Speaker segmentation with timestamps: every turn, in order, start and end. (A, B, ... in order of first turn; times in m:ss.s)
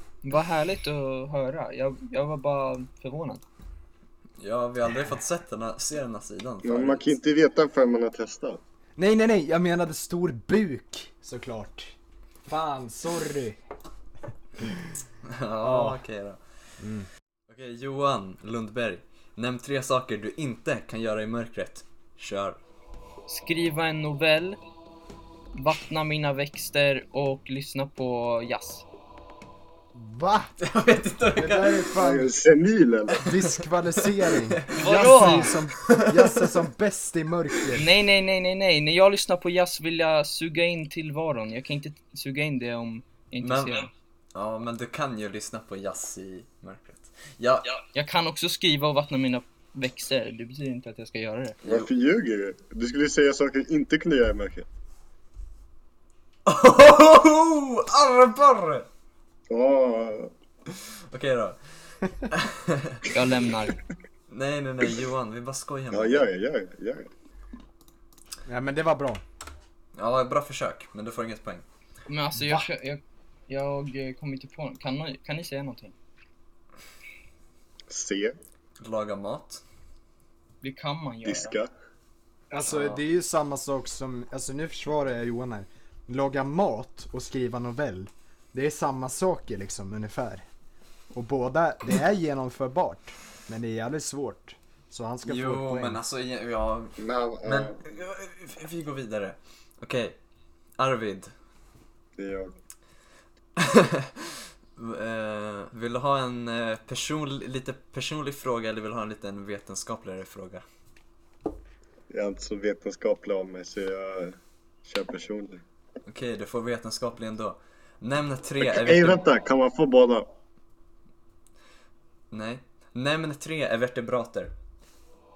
0:00.2-0:03.4 A
0:04.4-0:07.2 B
0:06.6-0:08.6 C
0:09.0-0:13.6 D
0:14.6-0:14.9 D
0:15.2-0:16.4 B
0:15.6-0:16.0 D
0:16.8-0:17.1 D
0:17.5-0:22.6 B
0:23.3-0:24.6 A
0:25.5-0:28.9 A
0:29.9-0:30.6 D
0:30.6-0:32.0 B
0:31.3-0:32.4 D
0:32.0-0:33.3 C
0:33.2-0:37.9 D
0:34.1-0:34.6 B
0:34.7-0:35.5 A
0:35.6-0:36.5 B
0:37.8-0:43.9 A
0:43.4-0:47.8 B
0:47.9-0:51.6 A
0:51.6-0:54.7 C
0:56.5-0:58.9 B
0:59.5-1:00.3 C
1:00.7-1:03.1 B
1:03.1-1:03.8 A
1:04.3-1:06.3 B
1:05.9-1:07.1 C
1:08.5-1:09.2 D
1:10.0-1:11.6 B
1:12.1-1:16.0 A
1:17.9-1:18.4 C
1:18.8-1:19.6 B
1:20.6-1:21.6 A
1:21.2-1:21.7 C
1:22.5-1:30.4 D
1:22.7-1:23.0 B
1:31.1-1:36.0 D
1:35.2-1:40.2 B
1:37.0-1:37.8 C
1:40.8-1:41.3 B
1:42.2-1:42.6 C
1:43.6-1:50.6 B
1:52.1-1:55.6 C
1:56.1-1:59.2 B
1:58.6-2:00.3 C
2:02.3-2:04.5 B